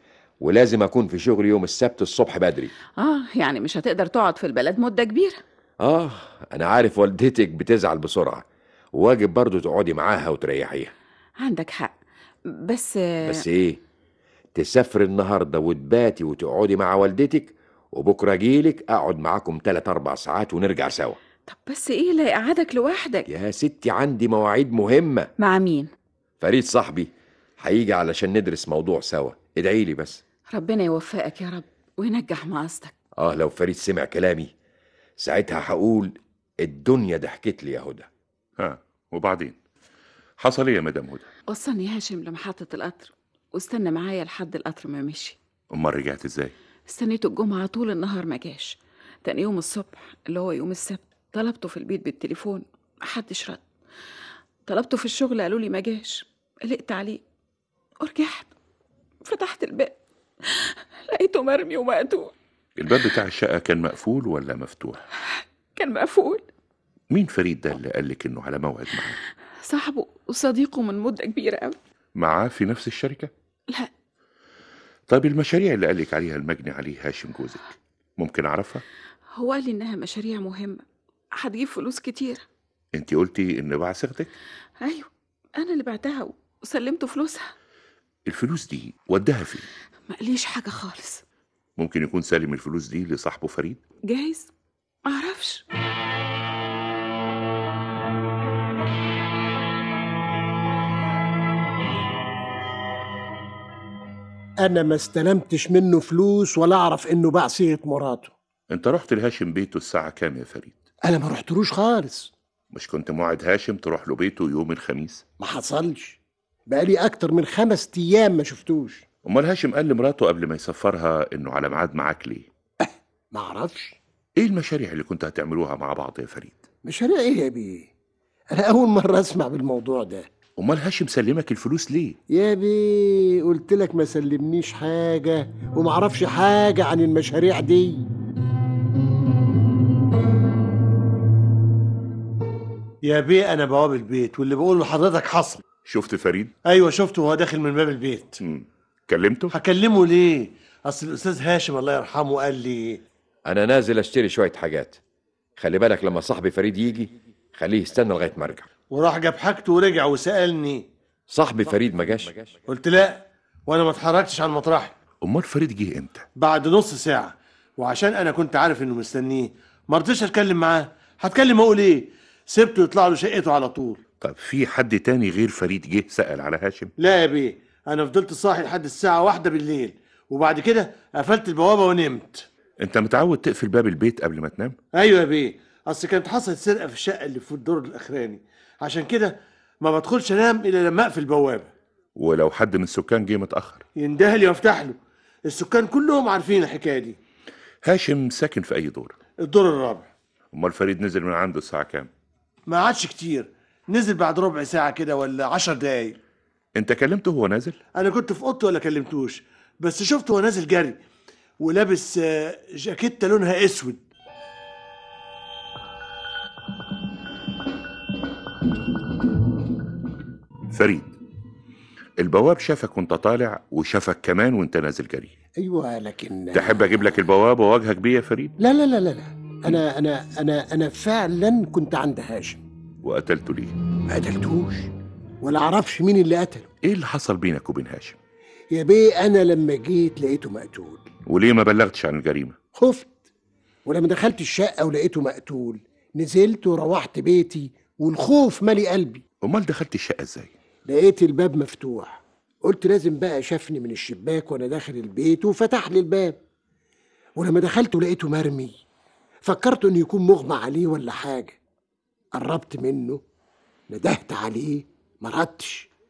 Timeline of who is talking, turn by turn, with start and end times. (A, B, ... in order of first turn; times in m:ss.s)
0:00.4-0:02.7 A
0:03.0-0:05.4 B
0:05.8-0:08.4 A
0:09.0-0:10.9 A
0:11.4-0:11.9 B
0:12.7-0:13.4 B
0:13.2-0:13.8 A
0:14.6-0:21.2 A
0:21.5-0:23.2 B
0:23.3-0:25.3 A
0:25.4-0:25.9 B
0:26.4-0:30.2 A
0:30.5-0:32.9 B
0:33.2-0:34.5 A
0:35.2-0:38.1 A
0:38.6-0:39.6 C
0:40.4-0:41.3 C
0:41.5-0:45.4 B
0:45.7-0:46.5 C
0:46.9-0:53.6 B
0:54.7-0:57.2 B
0:58.0-0:58.5 B
0:59.2-1:00.0 B
1:00.6-1:02.3 B
1:02.8-1:05.0 C
1:05.8-1:06.4 B
1:07.1-1:09.2 C
1:09.6-1:11.8 B
1:12.2-1:13.3 C
1:15.1-1:18.8 C
1:19.4-1:20.8 B
1:21.4-1:22.4 B
1:23.0-1:24.3 C
1:24.8-1:27.5 B
1:28.3-1:29.6 C
1:30.1-1:31.2 B
1:31.8-1:33.8 C
1:34.1-1:34.5 B
1:35.0-1:35.6 B
1:44.6-1:48.3 D
1:48.7-1:50.8 C
1:51.0-1:52.3 D
1:52.7-1:55.2 C
1:55.4-1:59.0 D
1:59.3-2:02.5 C
2:02.8-2:04.0 D
2:04.4-2:06.6 C
2:06.8-2:07.9 D
2:08.5-2:10.3 D
2:10.6-2:12.2 C
2:12.3-2:18.0 D
2:23.0-2:25.6 E
2:25.9-2:26.5 C
2:26.6-2:28.4 E
2:28.4-2:29.5 C
2:29.5-2:33.0 E
2:33.5-2:35.0 A
2:35.6-2:38.7 A
2:38.9-2:40.9 E
2:41.3-2:42.5 A
2:42.7-2:44.9 E
2:45.2-2:46.2 C
2:46.4-2:54.0 E
2:54.2-2:56.9 C
2:57.0-3:02.4 E
3:02.8-3:04.8 C
3:04.9-3:11.7 E
3:12.2-3:13.8 C
3:14.0-3:17.2 E
3:17.8-3:19.1 C
3:19.4-3:20.1 E
3:20.5-3:22.1 C
3:22.7-3:26.2 E
3:26.8-3:27.8 C
3:28.0-3:31.0 E
3:31.6-3:34.0 E
3:40.7-3:41.2 C
3:42.2-3:45.3 C
3:45.6-3:46.8 D
3:46.5-3:48.5 C
3:48.6-3:52.6 D
3:53.0-3:53.7 C
3:54.1-3:54.9 D
3:55.4-3:56.7 D
3:56.8-3:58.2 C
3:58.7-4:01.1 D
4:01.3-4:02.6 C
4:02.8-4:03.1 D
4:03.9-4:09.2 D
4:09.4-4:10.5 C
4:10.9-4:16.4 D
4:17.4-4:18.8 D
4:19.4-4:21.6 D
4:22.3-4:23.2 D
4:23.9-4:25.9 D